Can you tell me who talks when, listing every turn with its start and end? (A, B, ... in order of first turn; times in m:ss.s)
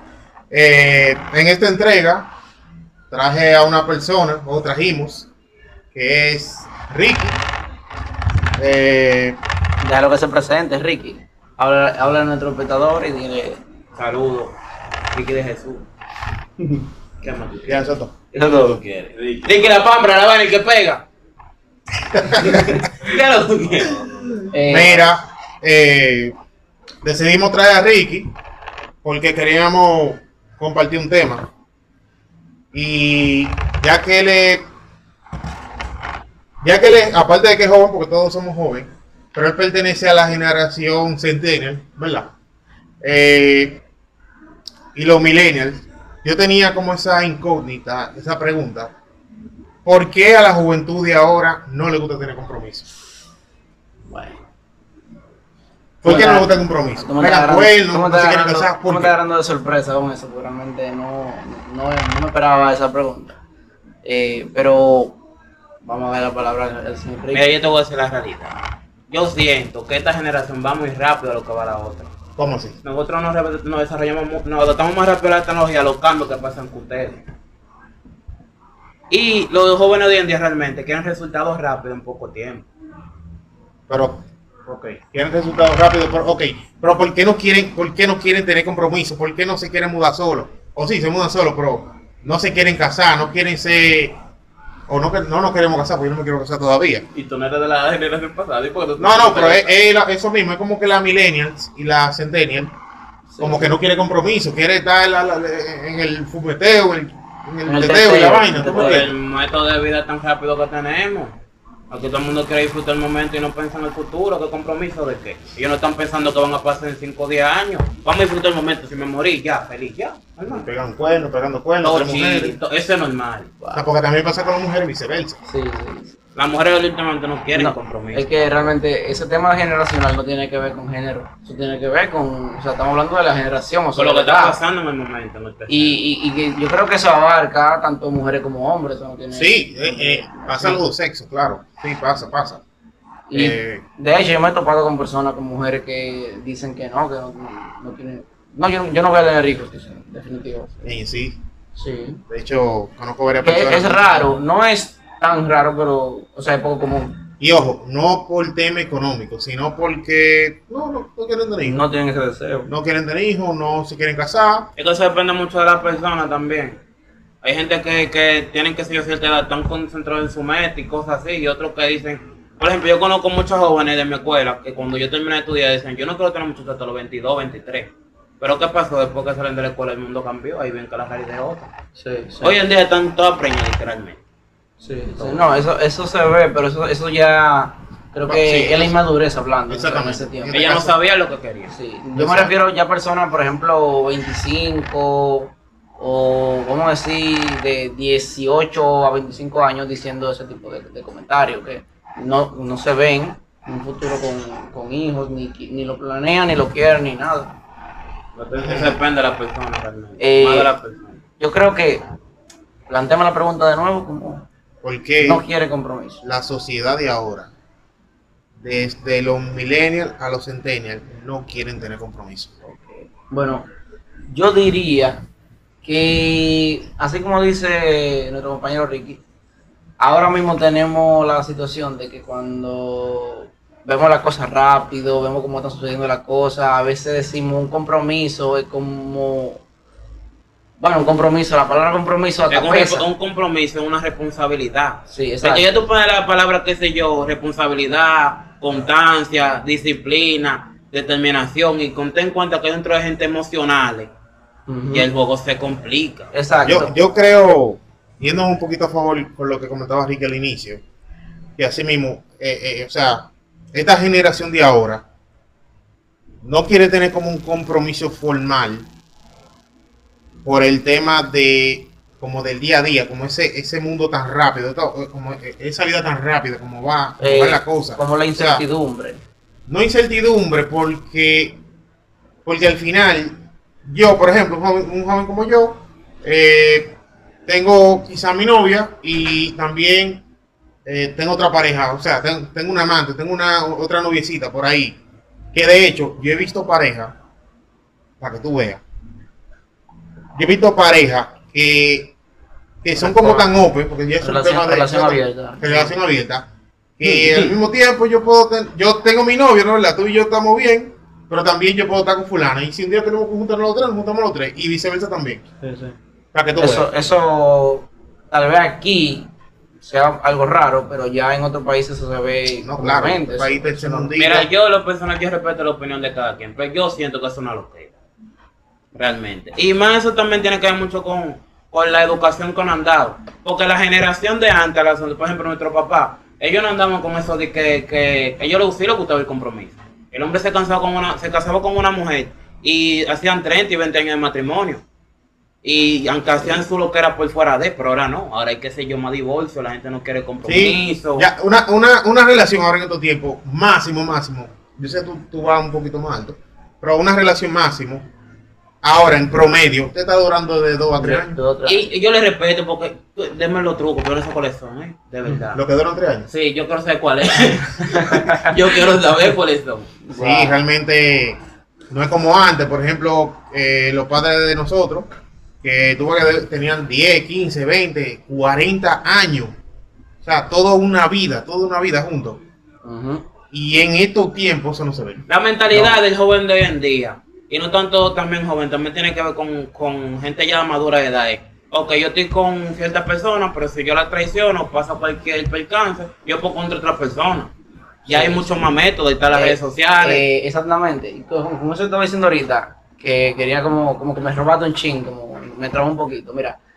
0:00.5-0:02.3 A
0:03.1-0:05.3 A
0:05.9-0:07.4 A
0:08.6-0:09.4 A
0:09.8-0:13.6 B
0:14.0-0:14.6 C
0:15.1-0:15.8 C
0:17.2-0:21.0 C
0:17.6-0:18.1 A
0:18.3-0:18.8 B
0:22.1-0:22.6 A
0:22.3-0:24.3 C
0:24.5-0:25.1 B
0:24.6-0:26.3 A
0:27.0-0:28.3 A
0:29.0-0:31.5 A
0:32.7-0:34.6 A
0:36.6-0:42.3 A
0:43.0-0:43.8 A
0:44.9-0:48.9 A
0:49.8-0:52.9 A
0:54.1-0:54.4 B
0:56.0-0:59.1 A
0:56.0-1:03.4 B
1:04.0-1:05.2 B
1:05.8-1:07.4 B
1:07.3-1:08.6 C
1:09.1-1:12.1 C
1:12.4-1:12.8 A
1:12.8-1:17.2 C
1:19.1-1:22.7 C
1:23.9-1:34.2 A
1:34.9-1:37.0 A
1:37.1-1:39.7 C
1:39.0-1:42.7 A
1:43.3-1:43.8 B
1:43.4-1:49.1 A
1:47.6-1:49.0 B
1:48.6-1:51.3 C
1:51.9-2:00.7 C
2:00.5-2:02.6 A
2:01.8-2:03.5 C
2:03.7-2:05.4 A
2:05.4-2:06.1 B
2:06.4-2:08.3 C
2:07.5-2:14.6 B
2:13.9-2:16.0 C
2:15.7-2:20.8 B
2:19.3-2:22.6 A
2:23.3-2:30.9 B
2:23.3-2:23.8 A
2:30.8-2:31.4 A
2:31.8-2:32.2 B
2:32.3-2:34.3 A
2:33.4-2:37.2 B
2:37.4-2:41.8 A
2:41.6-2:42.7 B
2:42.6-2:44.7 A
2:44.8-2:46.8 C
2:47.4-3:01.7 C
3:02.0-3:02.6 B
3:02.4-3:04.2 C
3:04.8-3:10.7 B
3:05.2-3:05.5 C
3:08.2-3:09.0 A
3:09.7-3:11.0 A
3:10.5-3:11.8 C
3:11.7-3:27.6 B
3:12.1-3:12.5 A
3:28.3-3:31.2 C
3:28.6-3:29.0 A
3:30.2-3:30.7 B
3:31.4-3:32.0 B
3:32.9-3:34.4 B
3:34.8-3:35.4 A
3:35.2-3:36.2 B
3:36.2-3:37.5 A
3:38.6-3:42.6 A
3:42.6-3:43.6 B
3:44.3-3:45.2 B
3:45.8-3:49.2 B
3:50.0-3:59.6 B
4:00.8-4:03.1 B
4:02.5-4:14.1 C
4:05.1-4:05.7 B
4:14.7-4:15.1 B
4:14.9-4:16.3 C
4:16.3-4:16.9 B
4:16.6-4:20.8 A
4:21.6-4:25.0 A
4:26.4-4:28.9 A
4:30.4-4:38.6 A
4:37.2-4:39.2 B
4:39.7-4:41.6 A
4:42.4-4:43.3 A
4:43.8-4:47.0 A
4:47.5-4:50.2 A
4:50.8-4:55.0 A
4:55.5-4:57.1 A
4:58.2-4:58.8 A
5:00.3-5:02.1 A
5:02.8-5:06.4 A
5:03.0-5:03.6 B
5:04.2-5:05.9 B
5:07.0-5:15.4 A
5:07.0-5:07.6 B
5:15.6-5:16.0 B
5:16.3-5:16.9 A
5:16.6-5:19.3 B
5:19.8-5:24.1 B
5:22.6-5:24.5 A
5:24.2-5:27.9 C
5:28.9-5:44.8 C
5:45.6-5:51.3 C
5:50.4-5:58.0 A
5:58.8-6:01.4 A
6:01.0-6:01.8 B
6:01.6-6:05.6 C
6:05.5-6:06.3 A
6:06.3-6:10.0 C
6:08.1-6:08.5 B
6:10.0-6:10.6 B
6:10.1-6:15.1 A
6:15.6-6:19.6 A
6:20.2-6:22.4 A
6:22.8-6:23.2 B
6:23.5-6:25.2 A
6:25.3-6:37.5 C
6:25.7-6:26.0 B
6:38.0-6:38.5 B
6:38.0-6:40.2 C
6:39.3-6:46.6 B